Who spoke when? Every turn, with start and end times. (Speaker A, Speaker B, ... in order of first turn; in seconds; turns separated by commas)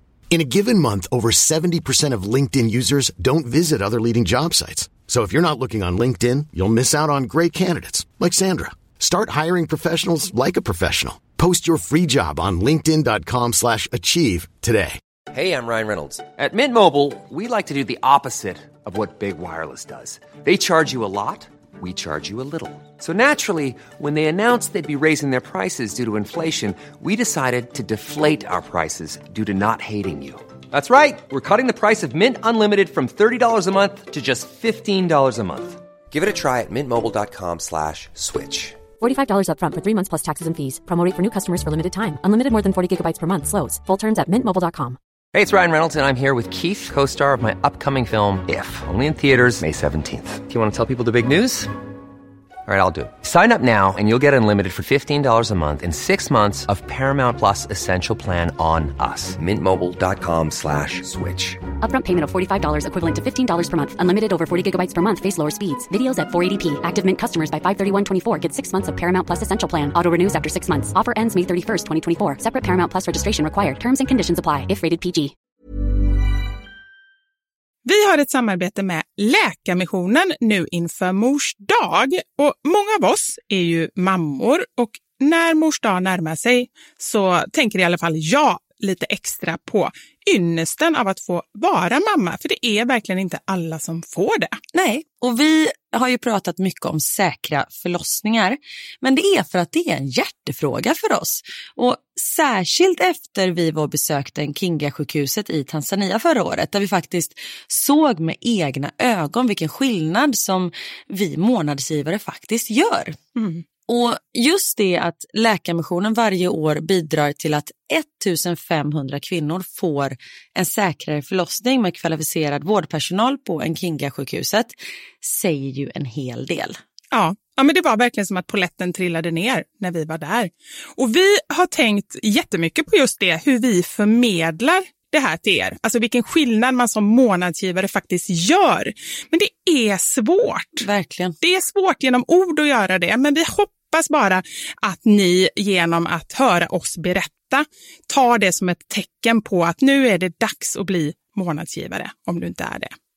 Speaker A: 0.3-15.0, Speaker B: 15.3-38.8, Speaker C: 39.0-45.0, Speaker B: 45.3-51.7, Speaker B: 52.6-61.6, Speaker C: 61.8-75.3, Speaker D: 77.8-94.6, Speaker E: 94.7-113.2, Speaker D: 113.3-113.6, Speaker E: 113.9-126.8, Speaker D: 127.1-140.9, Speaker E: 140.8-141.3, Speaker D: 141.4-152.9